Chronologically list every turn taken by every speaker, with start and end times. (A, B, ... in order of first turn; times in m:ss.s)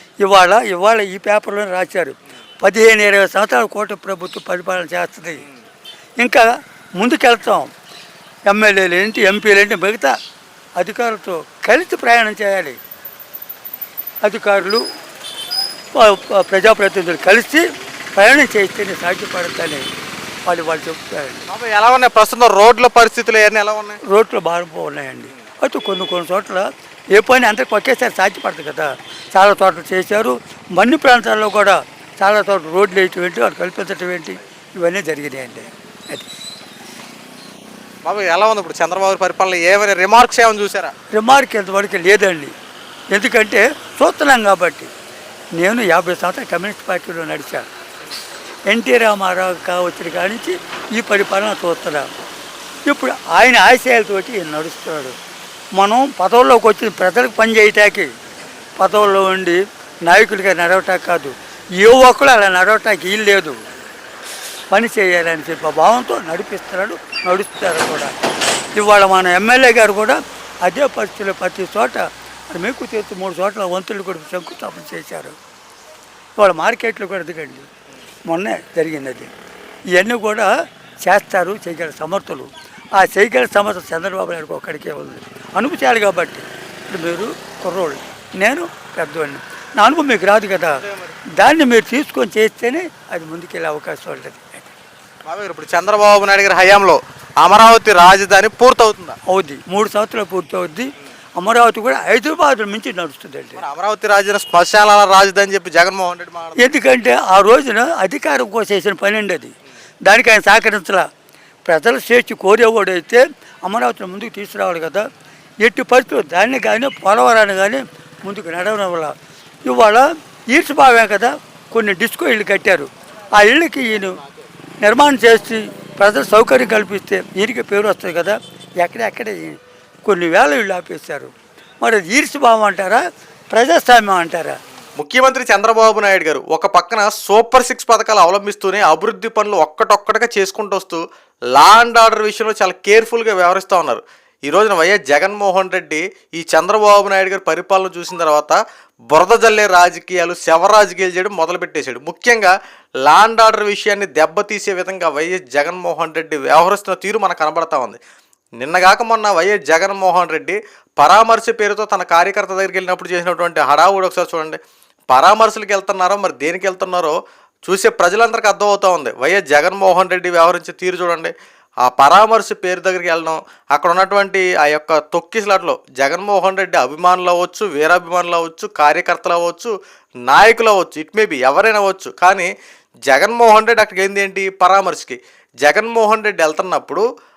0:00.2-0:05.4 A
0:06.2-0:07.7 A
0:08.5-0:10.1 A
0:10.8-0:12.8 A
0:14.2-0:14.8 A
0:15.9-0:19.9 A
0:20.4-0:21.4 A
0:21.5-0:24.0 B
0:24.0-0:36.3 A
0:38.0-0:40.9 B
0:41.1-0:42.5 A
0:43.1-0:44.9 A
0:45.6-0:47.7 A
0:48.7-0:52.1 A
0:52.8-0:55.2 A
0:55.8-0:58.1 A
0:58.8-1:03.6 A
1:04.7-1:08.1 A
1:08.8-1:15.4 A
1:16.4-1:17.7 A
1:18.3-1:19.3 A
1:19.9-1:20.5 A
1:21.0-1:30.8 A
1:30.8-1:31.1 B
1:31.4-1:34.7 A
1:35.2-1:39.2 B
1:39.3-1:43.6 A
1:43.6-1:46.6 B
1:46.6-1:49.5 A
1:50.0-1:51.1 A
1:51.7-1:55.0 A
1:55.6-1:59.1 A
1:59.6-2:04.2 A
2:04.8-2:13.0 A
2:13.5-2:14.6 A
2:15.0-2:21.0 B
2:21.5-2:28.6 B
2:29.1-2:32.5 B
2:33.0-2:38.0 B
2:38.6-2:44.6 B
2:45.1-2:47.1 B
2:47.6-2:51.3 B
2:51.8-2:59.7 B
3:00.2-3:02.5 B
3:03.1-3:07.0 B